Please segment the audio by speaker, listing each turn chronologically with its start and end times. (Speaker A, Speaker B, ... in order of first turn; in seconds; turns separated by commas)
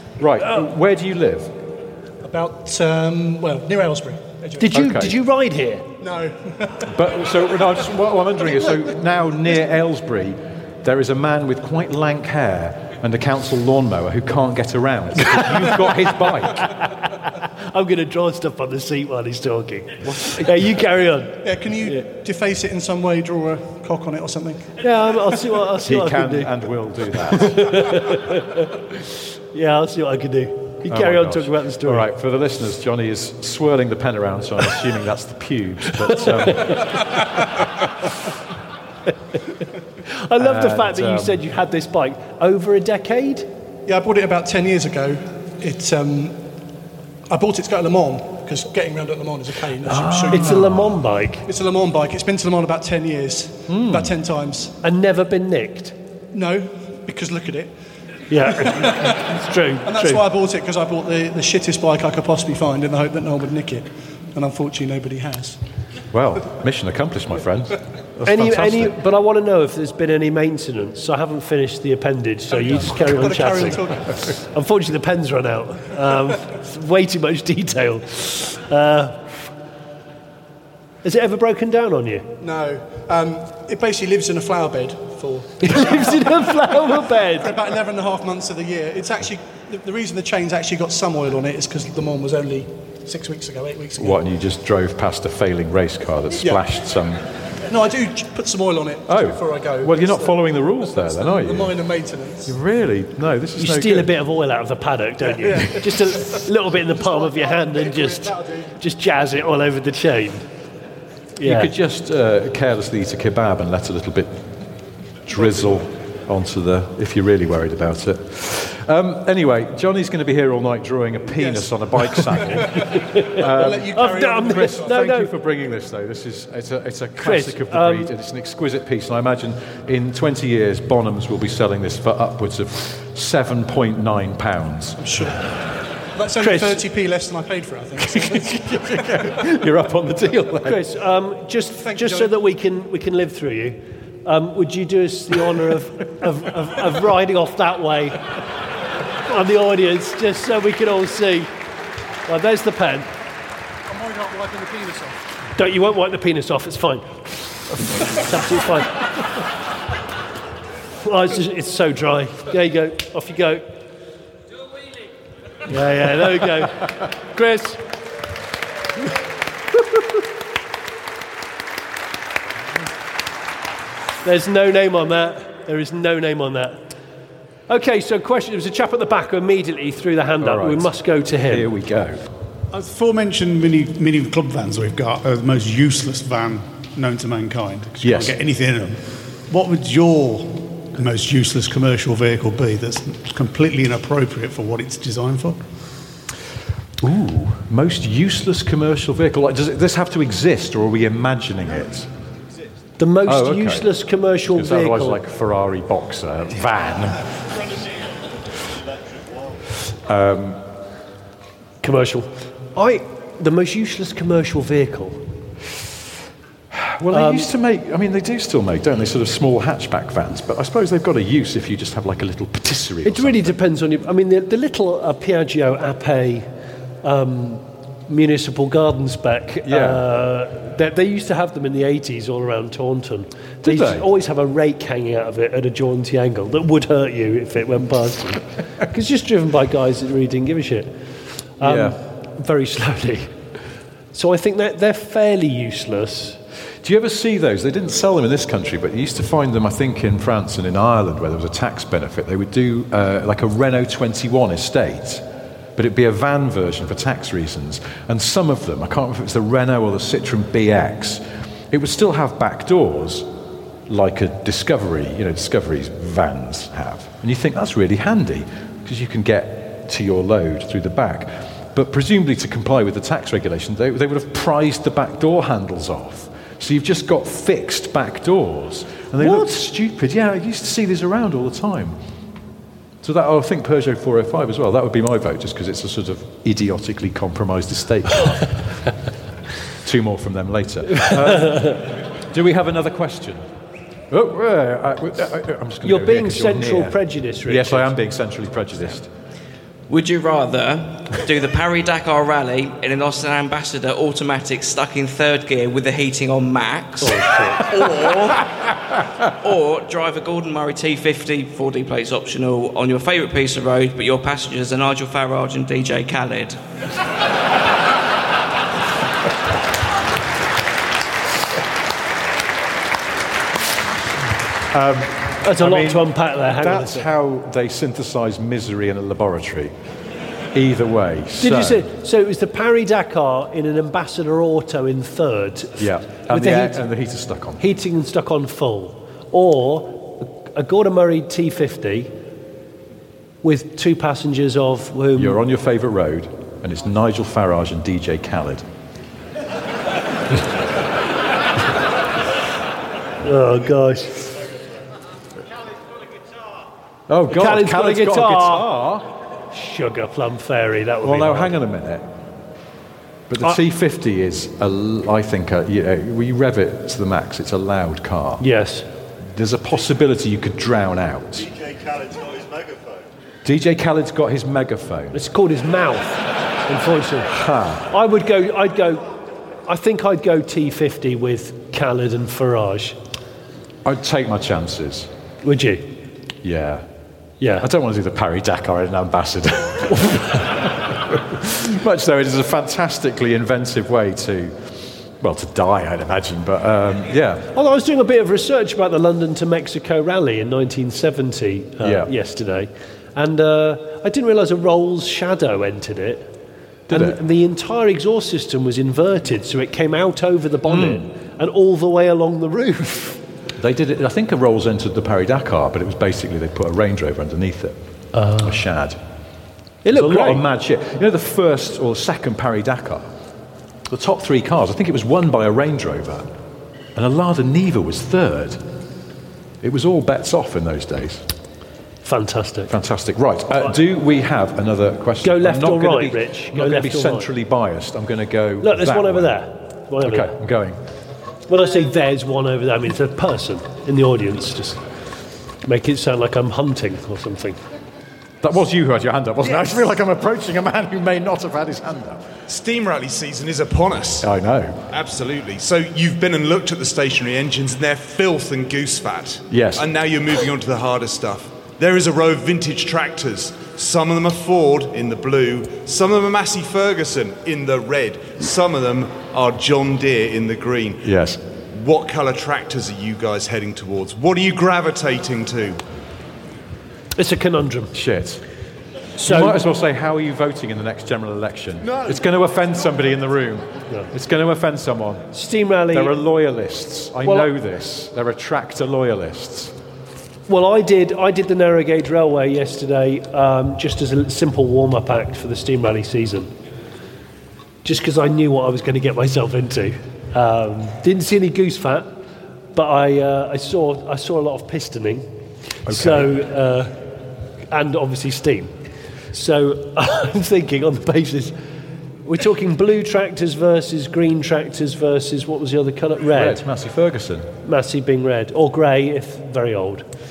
Speaker A: 0.2-1.5, Speaker B: 2.2-4.8, Speaker C: 4.6-5.9, Speaker A: 4.7-5.2, Speaker B: 6.0-7.1, Speaker A: 6.8-16.7, Speaker C: 15.2-22.0, Speaker A: 20.1-20.4, Speaker B: 21.4-24.7, Speaker C: 24.8-26.6, Speaker A: 25.8-28.0, Speaker C: 27.3-32.1, Speaker A: 30.9-37.1, Speaker C: 36.1-37.0, Speaker C: 40.1-43.5, Speaker A: 40.4-41.4, Speaker B: 43.9-46.4, Speaker B: 47.3-50.8, Speaker A: 49.8-50.9, Speaker C: 50.3-51.5, Speaker B: 51.5-54.7, Speaker A: 53.7-54.1, Speaker C: 54.8-55.9, Speaker B: 56.3-57.7, Speaker C: 58.3-60.2, Speaker B: 58.4-65.6, Speaker A: 66.1-69.0, Speaker C: 68.2-79.3, Speaker B: 72.5-74.3, Speaker C: 81.0-82.3, Speaker B: 82.4-94.2, Speaker C: 85.6-87.5, Speaker A: 94.0-97.2, Speaker B: 97.7-102.5, Speaker A: 99.1-101.8, Speaker A: 102.5-104.1, Speaker C: 103.6-110.5, Speaker B: 105.2-108.7, Speaker C: 111.4-111.7, Speaker A: 111.4-114.5, Speaker A: 115.2-135.0, Speaker B: 121.3-125.0, Speaker C: 122.9-125.3, Speaker C: 127.2-128.1, Speaker B: 135.0-135.5, Speaker B: 136.1-139.1, Speaker C: 136.4-136.8, Speaker A: 138.0-140.8, Speaker C: 140.6-148.2, Speaker B: 141.8-142.3, Speaker C: 149.2-151.5, Speaker C: 152.3-153.1, Speaker B: 153.9-155.3, Speaker C: 155.6-159.1, Speaker C: 161.0-163.7, Speaker C: 165.7-167.8, Speaker C: 174.2-176.8, Speaker C: 177.7-181.7, Speaker A: 180.4-180.9, Speaker A: 181.5-182.2, Speaker D: 182.7-195.6, Speaker A: 188.0-188.4, Speaker A: 197.0-202.1, Speaker C: 203.0-205.2, Speaker A: 203.2-203.9, Speaker A: 204.4-207.3, Speaker A: 210.0-210.6, Speaker C: 211.8-215.2, Speaker A: 216.7-223.6, Speaker C: 217.1-217.5, Speaker C: 223.0-226.5, Speaker C: 227.0-240.9, Speaker A: 229.7-230.1, Speaker A: 233.6-234.1, Speaker C: 241.6-243.3, Speaker A: 241.6-242.0, Speaker C: 244.1-246.4, Speaker A: 246.8-255.2, Speaker A: 255.8-263.3, Speaker A: 263.9-282.0, Speaker C: 279.2-279.6, Speaker A: 283.0-288.6, Speaker A: 289.8-293.4, Speaker C: 291.0-291.8, Speaker A: 294.1-299.1, Speaker C: 295.8-297.9, Speaker E: 299.9-308.4, Speaker C: 307.0-307.7, Speaker E: 309.2-316.6, Speaker A: 324.7-329.7, Speaker C: 325.4-327.1, Speaker A: 330.5-331.9, Speaker C: 331.4-336.8, Speaker A: 335.8-337.6, Speaker C: 337.6-342.1, Speaker C: 343.4-345.4, Speaker A: 345.1-348.6, Speaker C: 353.2-354.2, Speaker A: 357.1-359.1, Speaker C: 357.3-358.7, Speaker C: 359.5-361.5, Speaker A: 361.0-362.1, Speaker A: 363.3-368.4, Speaker C: 368.4-368.9, Speaker A: 369.2-371.5, Speaker A: 373.4-375.2, Speaker C: 375.1-377.3, Speaker A: 377.3-377.9, Speaker C: 377.9-379.1, Speaker C: 379.6-383.0, Speaker A: 383.8-385.1, Speaker C: 385.4-385.9, Speaker A: 386.4-386.8, Speaker C: 387.4-387.7, Speaker A: 387.6-397.5, Speaker C: 397.5-406.3, Speaker A: 401.8-402.1, Speaker A: 406.9-407.2, Speaker C: 406.9-413.2, Speaker A: 410.7-411.1, Speaker A: 413.6-417.8, Speaker C: 418.1-418.6, Speaker A: 418.4-419.0, Speaker C: 419.8-420.4, Speaker A: 419.9-423.1, Speaker A: 423.9-426.2, Speaker A: 426.9-428.6, Speaker A: 429.6-431.2, Speaker C: 432.0-432.7, Speaker A: 432.7-439.4, Speaker C: 435.2-437.3, Speaker C: 438.6-440.3, Speaker A: 440.0-440.8, Speaker C: 441.5-444.8, Speaker C: 445.6-447.6, Speaker A: 448.4-452.3, Speaker F: 452.5-454.3, Speaker A: 454.2-454.8, Speaker F: 454.9-471.0, Speaker A: 459.5-459.9, Speaker A: 471.0-471.4, Speaker F: 471.7-475.8, Speaker C: 477.2-477.9, Speaker A: 477.9-478.4, Speaker C: 479.2-479.6, Speaker A: 479.2-485.3, Speaker C: 485.3-486.2, Speaker A: 485.9-489.7, Speaker C: 487.2-487.5, Speaker C: 490.5-496.5, Speaker C: 497.8-502.1, Speaker C: 502.8-505.3, Speaker A: 505.9-506.3, Speaker C: 505.9-506.9, Speaker C: 507.7-508.7, Speaker C: 509.3-511.5, Speaker C: 512.2-516.6, Speaker A: 516.3-517.5, Speaker C: 517.6-520.1